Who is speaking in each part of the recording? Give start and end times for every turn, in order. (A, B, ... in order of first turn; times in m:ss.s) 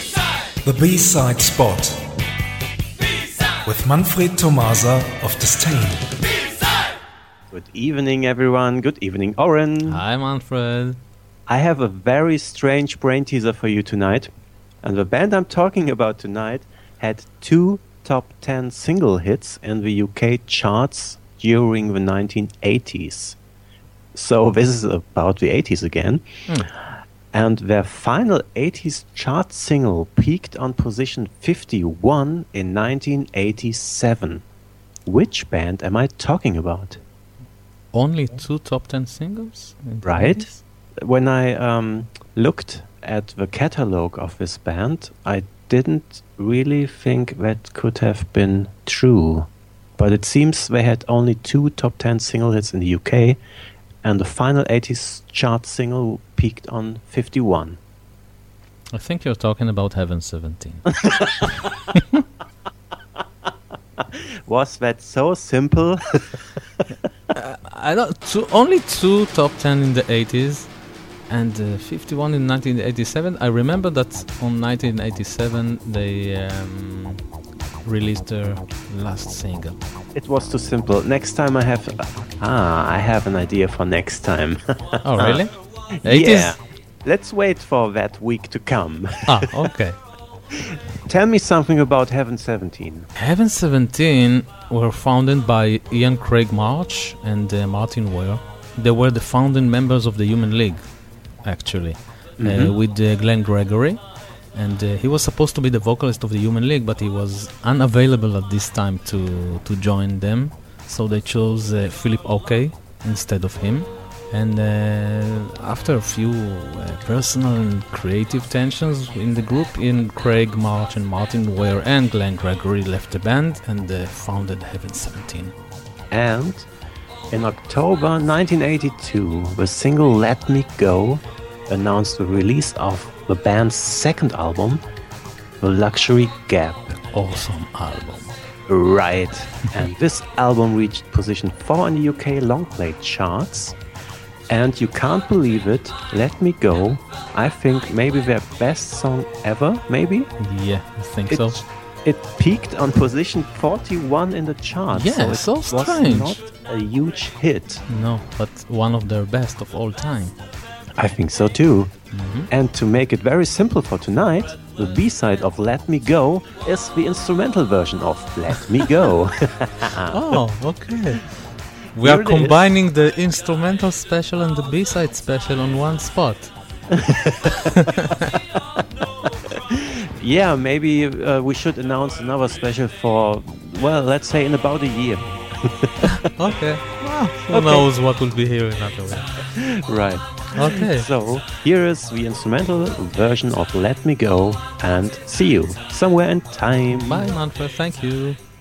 0:00.6-0:01.9 A
0:03.6-0:06.0 A
0:07.5-0:10.0 B
0:09.8-0:11.0 C
0:11.5-0:14.3 B
0:14.8-0:23.4 B
0:24.1-0:26.4 B
0:27.3-0:34.4 B
0:35.0-0:37.0 B
0:37.9-0:40.6 C
0:40.0-0:40.5 B
0:41.0-0:53.4 B
0:54.0-0:57.8 B
0:58.9-1:02.2 C
1:01.0-1:01.5 B
1:04.0-1:06.5 B
1:07.3-1:10.8 C
1:11.3-1:17.2 C
1:17.8-1:19.8 C
1:20.1-1:25.4 B
1:25.0-1:26.6 C
1:26.0-1:29.7 B
1:29.3-1:30.0 C
1:30.5-1:33.1 B
1:33.2-2:05.5 C
1:42.4-1:42.8 B
2:06.1-2:06.6 B
2:07.3-2:14.8 B
2:15.6-2:17.0 B
2:17.1-2:18.3 C
2:18.7-2:23.8 B
2:24.5-2:30.3 B
2:30.4-2:31.6 C
2:31.3-2:37.8 B
2:34.9-2:36.4 C
2:37.9-2:40.4 C
2:41.0-2:41.9 B
2:42.1-2:42.5 C
2:42.5-2:50.4 B
2:50.1-2:56.5 C
2:52.0-2:52.6 B
2:56.9-2:57.5 B
2:59.7-3:06.2 B
3:06.3-3:09.5 C
3:07.5-3:07.9 B
3:09.5-3:17.3 B
3:10.5-3:11.1 C
3:16.9-3:18.4 C